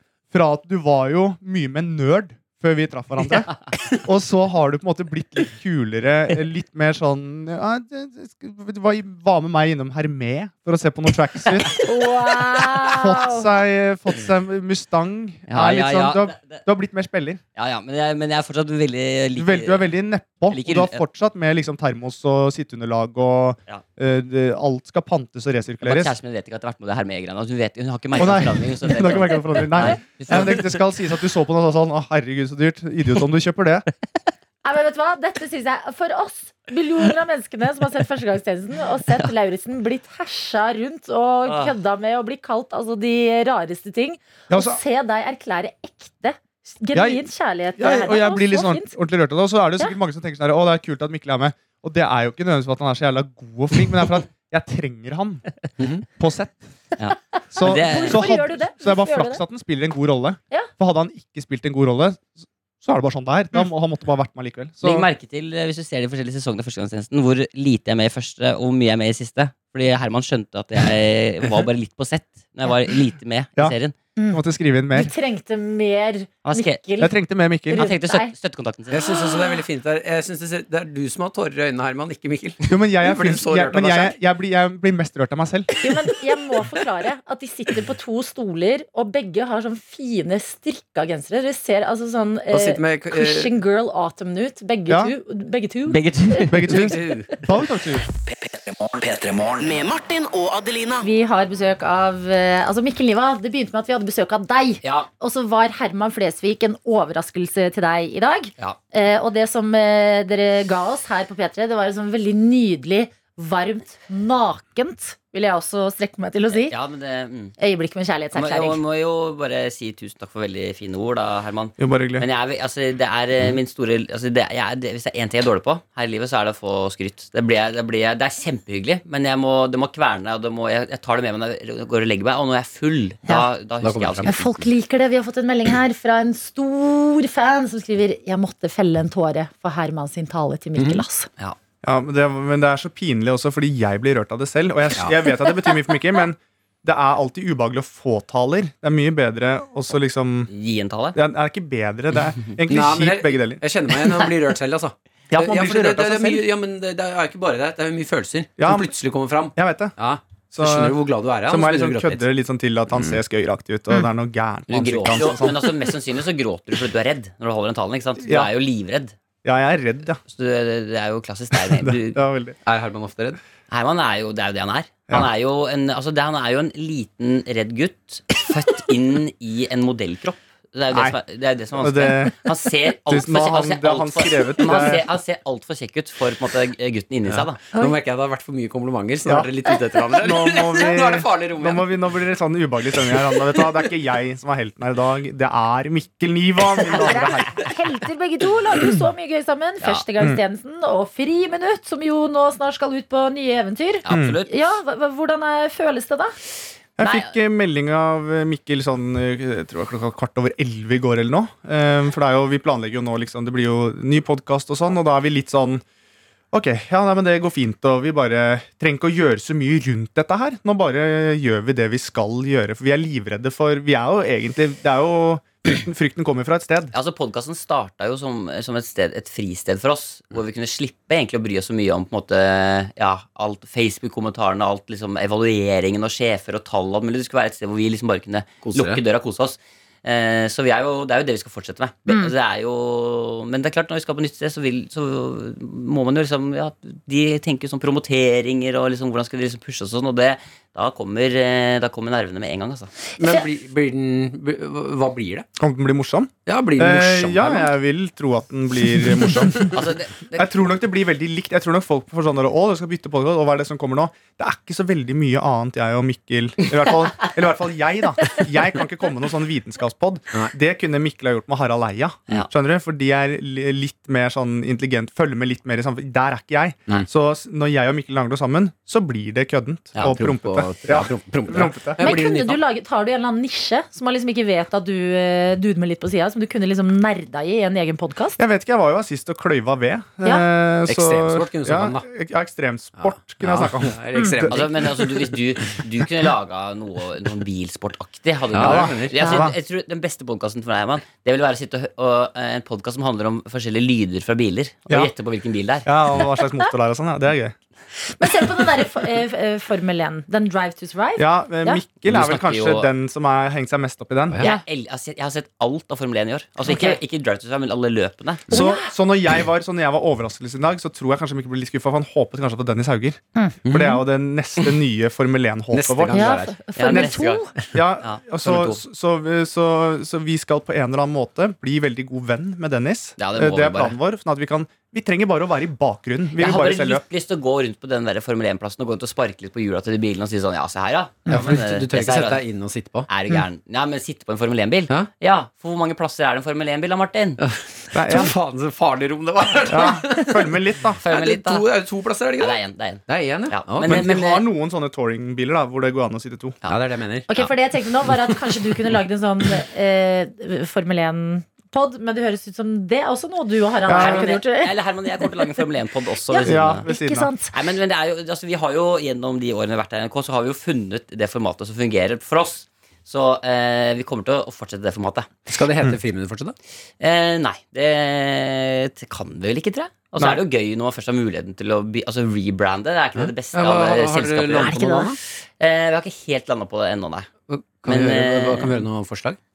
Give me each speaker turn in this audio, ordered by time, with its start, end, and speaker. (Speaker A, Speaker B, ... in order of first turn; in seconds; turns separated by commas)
Speaker A: 0.3-11.7, Speaker B: 11.8-13.4, Speaker A: 12.9-17.4, Speaker C: 15.5-16.6, Speaker C: 17.5-19.9, Speaker A: 19.4-26.1, Speaker C: 20.5-21.0, Speaker C: 25.8-30.8, Speaker A: 28.1-33.8, Speaker B: 34.6-49.0, Speaker C: 41.5-41.7, Speaker A: 44.5-44.8, Speaker A: 46.9-47.2, Speaker A: 47.8-55.4, Speaker D: 55.8-56.0, Speaker A: 56.1-56.7, Speaker C: 57.0-58.2, Speaker B: 57.5-59.4, Speaker A: 57.5-62.3, Speaker A: 62.8-65.1, Speaker C: 64.8-73.9, Speaker B: 74.2-74.4, Speaker A: 74.3-75.1, Speaker B: 74.9-77.2, Speaker C: 76.4-76.8, Speaker A: 77.0-77.9, Speaker B: 77.7-78.3, Speaker C: 77.7-79.2, Speaker D: 78.9-84.2, Speaker B: 79.0-79.6, Speaker A: 82.6-85.7, Speaker B: 85.8-96.5, Speaker D: 92.5-93.5, Speaker A: 94.9-95.1, Speaker C: 95.9-96.9, Speaker A: 96.5-98.0, Speaker D: 96.7-97.3, Speaker E: 98.3-101.0, Speaker B: 101.0-116.7, Speaker C: 104.8-105.1, Speaker C: 116.5-117.5, Speaker B: 117.6-118.8, Speaker C: 118.3-134.5, Speaker A: 121.8-122.2, Speaker D: 133.8-134.6, Speaker B: 134.2-141.3, Speaker D: 140.8-141.0, Speaker A: 141.8-150.5, Speaker C: 150.5-151.2, Speaker A: 151.1-153.6, Speaker D: 152.7-162.2, Speaker A: 155.3-156.4, Speaker A: 158.6-158.9, Speaker A: 159.5-159.9, Speaker A: 160.5-165.9, Speaker D: 162.9-163.2, Speaker C: 164.7-169.1, Speaker A: 168.2-168.5, Speaker A: 169.4-170.2, Speaker C: 170.2-172.2, Speaker A: 171.5-172.6, Speaker D: 172.7-173.4, Speaker C: 173.7-187.6, Speaker A: 180.9-181.2, Speaker A: 181.7-185.1, Speaker D: 187.3-192.0, Speaker A: 190.1-197.7, Speaker B: 196.9-206.4, Speaker C: 204.1-204.5, Speaker A: 204.1-204.4, Speaker A: 207.0-215.8, Speaker A: 216.5-226.9, Speaker C: 226.9-252.9, Speaker D: 238.6-239.0, Speaker D: 253.2-255.4, Speaker A: 255.6-282.1, Speaker D: 256.4-257.7, Speaker C: 259.7-260.5, Speaker D: 280.0-282.6, Speaker B: 282.0-288.4, Speaker A: 288.4-294.6, Speaker D: 290.9-292.1, Speaker D: 293.0-295.6, Speaker B: 294.1-294.4, Speaker C: 294.5-305.9, Speaker D: 298.5-299.2, Speaker A: 298.5-299.6, Speaker A: 305.8-307.5, Speaker B: 308.2-311.8, Speaker A: 311.2-314.4, Speaker C: 312.0-312.9, Speaker C: 314.4-318.5, Speaker B: 316.6-317.0, Speaker A: 318.5-337.0, Speaker B: 318.5-318.9, Speaker D: 323.6-324.0, Speaker D: 325.7-326.6, Speaker B: 326.1-327.5, Speaker C: 326.7-328.8, Speaker C: 333.1-333.9, Speaker C: 336.4-342.4, Speaker D: 341.3-343.4, Speaker C: 343.1-347.4, Speaker D: 347.4-354.1, Speaker A: 347.9-348.3, Speaker A: 349.7-351.0, Speaker C: 351.0-351.6, Speaker C: 352.4-354.4, Speaker A: 353.8-356.6, Speaker D: 356.6-357.4, Speaker B: 357.3-365.3, Speaker A: 363.9-364.3, Speaker C: 363.9-366.8, Speaker B: 366.3-367.5, Speaker A: 366.4-367.3, Speaker C: 367.5-375.4, Speaker D: 375.5-376.6, Speaker C: 377.0-387.3, Speaker A: 380.1-380.4, Speaker D: 383.1-385.2, Speaker B: 384.6-385.1, Speaker D: 387.5-389.4, Speaker C: 387.8-388.8